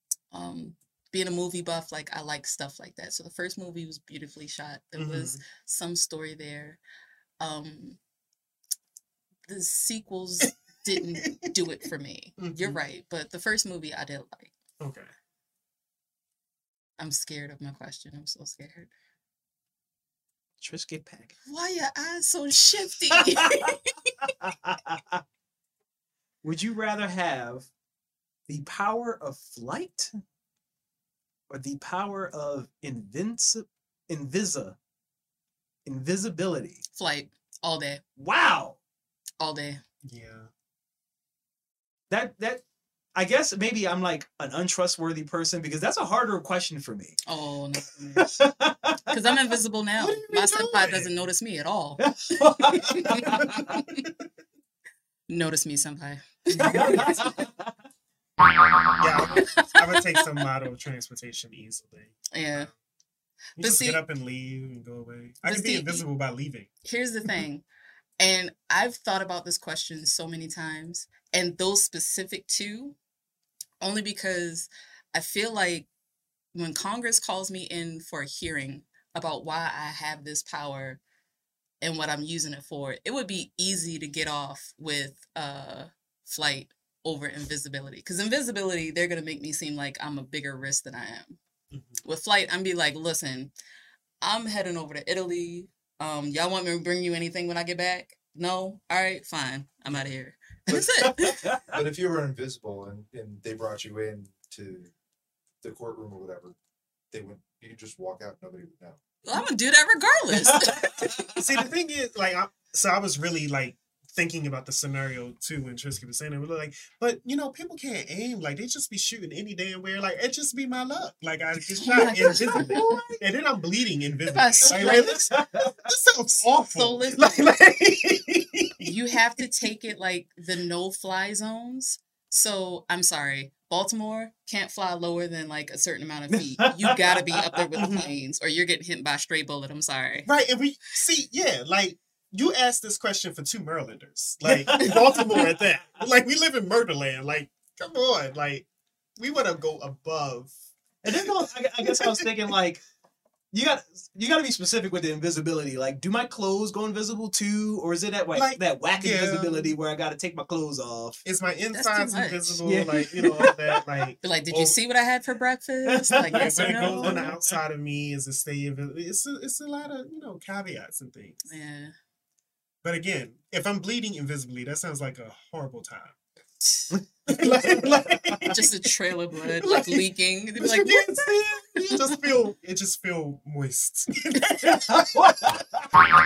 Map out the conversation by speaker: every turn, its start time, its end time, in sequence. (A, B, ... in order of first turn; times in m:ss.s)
0:00.3-0:06.8 A
0:05.0-0:05.4 B
0:07.4-0:08.0 A
0:09.5-0:14.5 A
0:10.9-0:11.5 B
0:12.4-0:12.8 B
0:14.8-0:15.1 B
0:17.0-0:18.9 A
0:20.6-0:21.3 C
0:21.5-0:24.3 A
0:23.1-0:23.7 C
0:24.3-0:25.2 C
0:26.4-0:27.7 C
0:28.5-0:30.1 C
0:31.5-0:34.8 C
0:35.8-0:36.8 C
0:36.9-0:38.0 A
0:38.2-0:38.8 C
0:39.4-0:39.8 A
0:40.0-0:40.5 B
0:42.1-0:42.6 C
0:43.1-0:47.2 C
0:47.2-0:48.3 A
0:48.2-0:49.2 C
0:49.1-0:54.0 A
0:50.0-0:51.1 B
0:52.0-0:53.5 C
0:53.5-0:54.2 B
0:55.3-0:57.1 A
0:56.6-0:57.7 C
0:56.6-0:57.0 B
0:59.0-1:02.7 B
0:59.4-1:00.2 A
1:02.3-1:02.7 A
1:03.6-1:06.7 B
1:03.6-1:04.0 A
1:05.4-1:06.0 A
1:06.8-1:07.6 A
1:08.2-1:13.0 A
1:13.8-1:15.9 A
1:16.5-1:21.0 A
1:21.8-1:31.4 A
1:31.7-1:32.0 B
1:32.0-1:33.5 A
1:34.2-1:41.5 A
1:40.7-1:41.0 D
1:41.0-1:41.8 C
1:41.7-1:44.9 D
1:45.6-1:46.6 D
1:47.1-1:49.0 D
1:49.2-1:51.3 A
1:50.5-1:51.2 C
1:51.4-2:08.9 B
2:01.8-2:03.0 A
2:01.9-2:03.2 C
2:04.3-2:05.2 A
2:04.6-2:05.7 C
2:06.7-2:07.5 A
2:08.8-2:20.3 A
2:16.3-2:17.5 C
2:17.8-2:18.1 B
2:20.2-2:30.5 B
2:24.4-2:25.5 C
2:31.0-2:32.8 C
2:31.8-2:32.2 B
2:33.5-2:41.2 C
2:38.3-2:39.7 B
2:41.2-2:44.8 B
2:41.7-2:42.6 A
2:42.6-2:43.8 C
2:44.2-2:47.2 A
2:45.9-2:47.4 C
2:46.3-2:51.4 B
2:51.4-2:51.9 A
2:52.8-2:56.2 B
2:56.9-2:58.5 C
2:57.3-2:58.7 B
2:58.5-3:01.3 A
2:59.6-3:00.0 B
3:00.6-3:05.3 B
3:04.6-3:05.9 C